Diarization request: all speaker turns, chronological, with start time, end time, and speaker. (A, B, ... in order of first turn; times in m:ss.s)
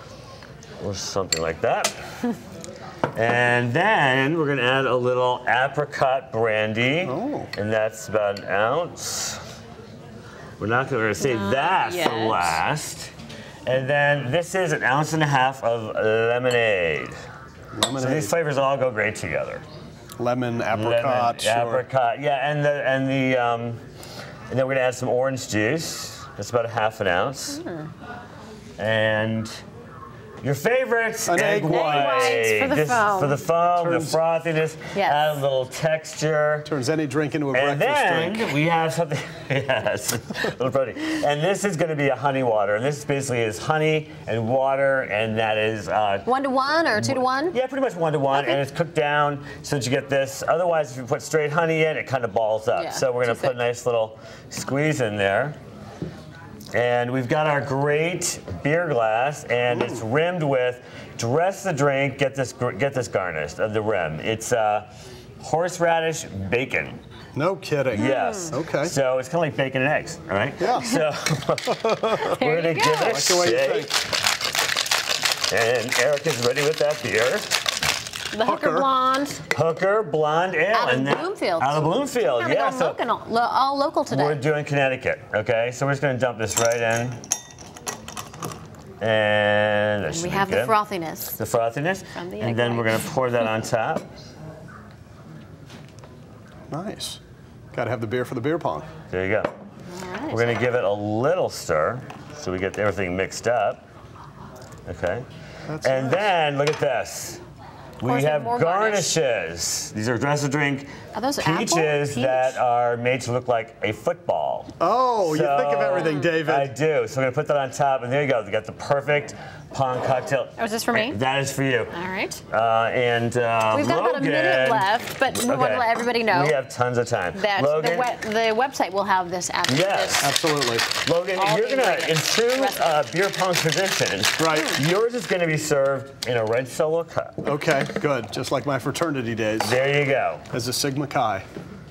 0:00.8-0:02.0 A
0:03.1-0:09.4 A
0:07.0-0:07.5 B
0:10.6-0:13.1 A
0:11.2-0:12.6 C
0:13.6-0:17.2 A
0:17.7-0:18.3 B
0:18.0-0:19.6 A
0:20.2-0:21.8 B
0:20.7-0:23.8 A
0:24.5-0:27.6 A
0:27.5-0:27.9 C
0:28.8-0:29.5 A
0:30.4-0:36.7 A
0:31.3-0:32.4 B
0:31.6-0:33.4 C
0:33.7-0:34.2 B
0:34.9-0:35.4 C
0:36.6-0:38.5 B
0:37.5-0:46.3 A
0:46.2-0:47.6 C
0:47.0-0:55.6 A
0:52.7-0:53.6 C
0:56.7-1:04.9 A
0:59.7-1:00.0 B
1:05.4-1:07.0 A
1:07.3-1:08.9 B
1:07.9-1:08.5 C
1:07.9-1:13.9 A
1:10.6-1:10.9 B
1:11.7-1:12.2 B
1:12.3-1:13.3 C
1:13.0-1:14.0 B
1:15.5-1:17.6 A
1:18.3-1:19.4 C
1:18.4-1:18.9 B
1:19.5-1:23.0 A
1:20.7-1:24.4 C
1:24.1-1:27.2 A
1:29.0-1:30.7 A
1:30.1-1:31.4 C
1:31.4-1:34.0 A
1:32.1-1:33.1 C
1:36.7-1:37.2 B
1:37.7-1:38.9 B
1:39.1-1:39.5 A
1:39.9-1:40.6 C
1:40.3-1:43.8 A
1:44.8-1:45.2 A
1:45.6-1:46.3 B
1:45.8-1:47.4 A
1:48.0-2:01.9 A
1:48.0-1:49.1 C
1:51.1-1:52.6 C
1:54.8-1:56.7 B
1:55.9-1:56.3 C
2:00.6-2:01.2 C
2:01.9-2:02.4 C
2:02.5-2:08.1 A
2:03.7-2:06.5 C
2:07.3-2:10.3 C
2:09.7-2:10.3 A
2:10.2-2:10.9 B
2:10.9-2:17.4 A
2:11.3-2:13.1 C
2:14.4-2:14.8 B
2:17.4-2:19.8 B
2:19.6-2:20.4 A
2:20.5-2:21.4 B